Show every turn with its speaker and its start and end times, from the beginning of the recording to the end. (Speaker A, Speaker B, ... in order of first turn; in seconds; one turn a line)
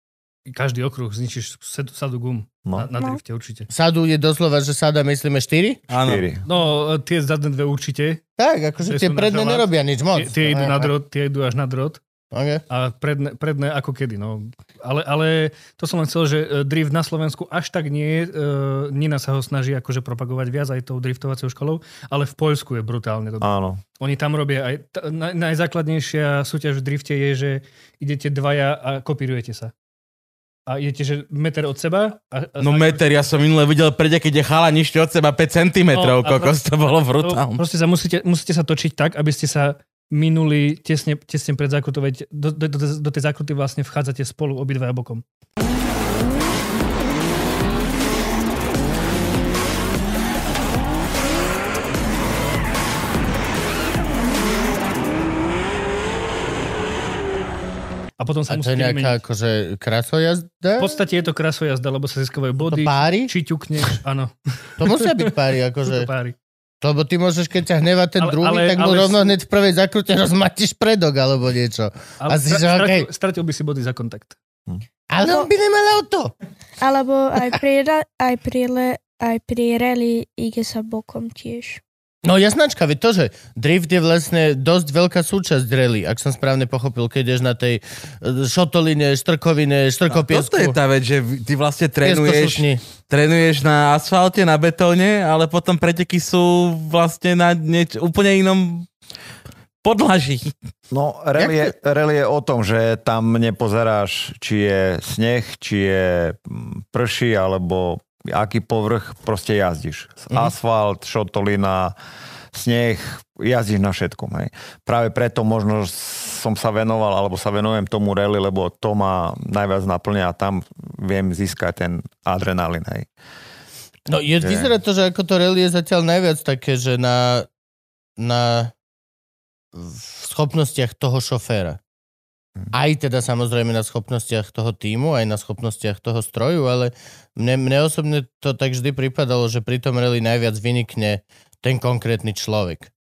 Speaker A: 0.5-3.7
Speaker B: 2.6-2.9
Speaker C: 3.7-5.8
Speaker D: 5.9-6.3
Speaker B: 6.0-6.4
Speaker A: 6.4-8.2
Speaker C: 8.4-10.9
Speaker A: 8.8-12.0
Speaker C: 12.3-12.6
Speaker A: 12.7-23.5
Speaker B: 23.4-23.8
Speaker A: 24.0-29.7
Speaker A: 30.7-33.1
Speaker D: 32.6-37.6
Speaker A: 35.9-45.2
Speaker A: 58.2-59.2
Speaker C: 58.5-60.9
Speaker A: 60.8-65.3
Speaker C: 62.6-63.3
Speaker C: 64.8-66.1
Speaker A: 65.9-66.3
Speaker C: 66.8-73.1
Speaker A: 68.2-69.3
Speaker A: 72.2-74.3
Speaker C: 75.1-76.3
Speaker E: 76.8-81.8
Speaker C: 82.2-90.8
Speaker D: 90.1-98.9
Speaker C: 92.0-92.8
Speaker D: 99.8-100.5
Speaker B: 100.9-111.9
Speaker C: 101.4-101.7
Speaker B: 112.5-123.1
Speaker C: 124.1-127.5
Speaker B: 124.4-124.7
Speaker C: 128.2-128.7
Speaker C: 129.7-131.8
Speaker C: 132.7-142.9